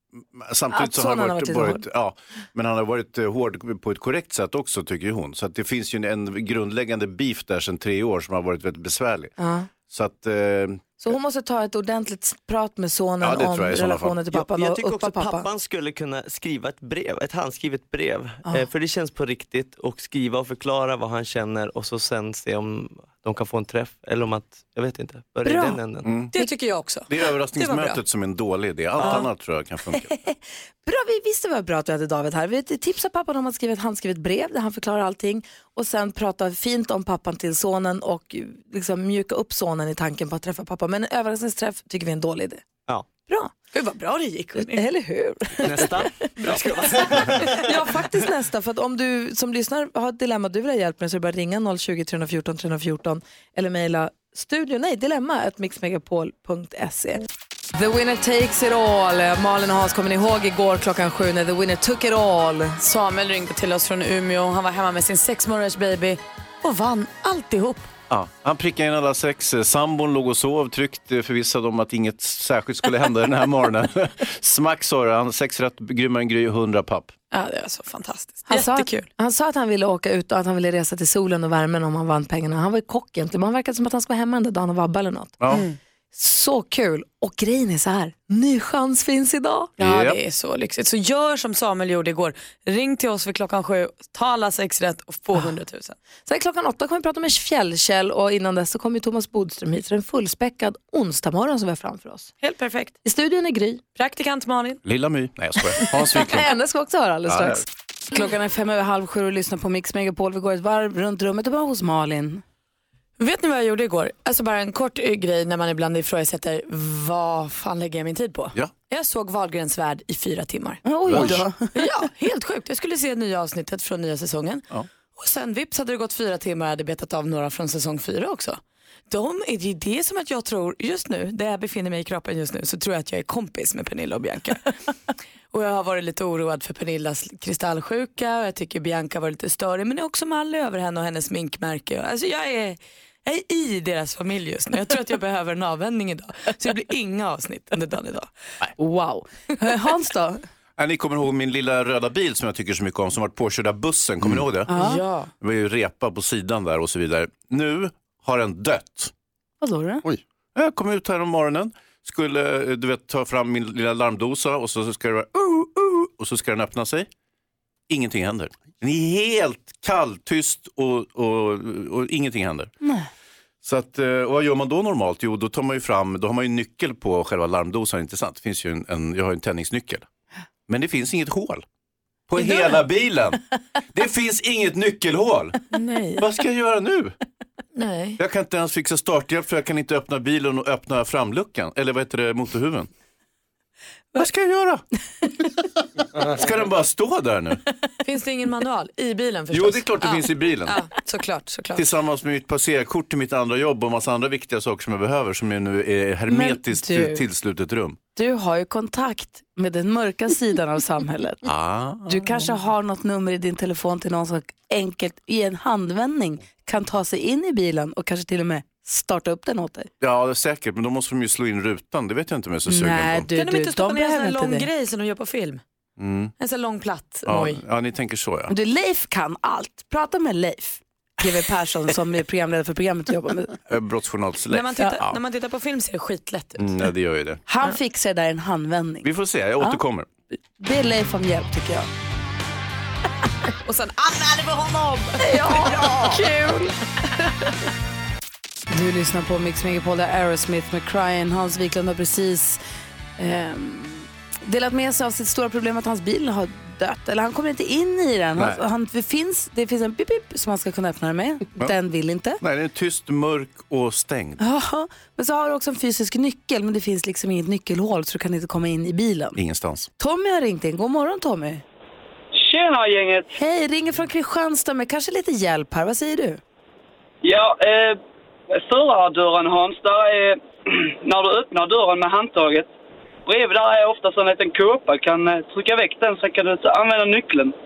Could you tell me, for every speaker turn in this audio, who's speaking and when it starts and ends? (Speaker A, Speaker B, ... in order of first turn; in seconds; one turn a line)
Speaker A: 0.2-9.3
Speaker B: 0.7-1.8
Speaker B: 9.4-9.7
Speaker A: 9.9-10.8
Speaker B: 11.0-15.5
Speaker A: 13.2-14.2
Speaker C: 14.3-26.1
Speaker B: 25.4-25.8
Speaker A: 26.1-26.4
Speaker D: 26.3-28.0
Speaker A: 27.1-30.1
Speaker C: 29.0-29.3
Speaker B: 30.1-42.6
Speaker B: 43.3-43.5
Speaker D: 43.7-44.8
Speaker B: 44.6-46.1
Speaker C: 45.6-47.6
Speaker D: 46.6-47.5
Speaker B: 47.5-57.2
Speaker B: 57.8-62.8
Speaker D: 62.8-67.9
Speaker A: 68.1-77.1
Speaker D: 77.3-79.1
Speaker B: 78.5-85.4
Speaker D: 85.5-85.8
Speaker B: 86.1-89.7
Speaker A: 89.8-90.2
Speaker D: 89.8-96.0
Speaker B: 96.3-102.3
Speaker D: 102.4-103.0
Speaker B: 103.0-103.8
Speaker D: 104.0-104.8
Speaker A: 104.8-106.5
Speaker B: 106.0-112.4
Speaker A: 107.3-107.6
Speaker D: 113.2-124.7
Speaker B: 120.8-121.8
Speaker A: 121.1-121.5
Speaker D: 125.2-134.7
Speaker D: 135.5-148.3
Speaker B: 148.8-150.4
Speaker A: 150.8-154.7
Speaker B: 154.7-155.0
Speaker D: 154.7-155.3
Speaker A: 155.4-159.1
Speaker B: 159.6-160.1
Speaker A: 160.6-167.1
Speaker A: 167.9-172.7
Speaker A: 173.6-180.1
Speaker A: 180.7-181.6
Speaker A: 182.3-183.4
Speaker A: 183.9-185.6
Speaker D: 185.7-186.2
Speaker A: 186.2-187.2
Speaker D: 187.8-188.2
Speaker A: 188.2-192.9
Speaker A: 194.2-194.8
Speaker A: 196.2-197.6
Speaker D: 198.0-201.8
Speaker A: 199.5-200.8
Speaker A: 201.8-208.0
Speaker B: 206.3-207.2
Speaker B: 208.2-211.5
Speaker A: 211.4-212.5
Speaker B: 212.1-219.9
Speaker A: 220.0-223.3
Speaker B: 222.7-224.7
Speaker D: 223.3-225.6
Speaker A: 226.0-226.3
Speaker D: 226.4-227.6
Speaker A: 227.3-228.5
Speaker B: 228.5-233.6
Speaker A: 233.7-235.2
Speaker D: 234.5-236.7
Speaker A: 236.6-237.4
Speaker B: 237.5-239.1
Speaker A: 239.0-240.1
Speaker B: 240.6-241.9
Speaker D: 243.7-246.7
Speaker B: 245.2-246.6
Speaker B: 248.7-252.6
Speaker B: 253.2-262.4
Speaker A: 262.4-264.4
Speaker B: 264.4-269.4
Speaker A: 269.4-269.9
Speaker B: 270.0-271.6
Speaker E: 272.3-273.3
Speaker B: 273.3-276.4
Speaker E: 277.2-278.0
Speaker E: 278.6-282.7
Speaker E: 283.3-287.6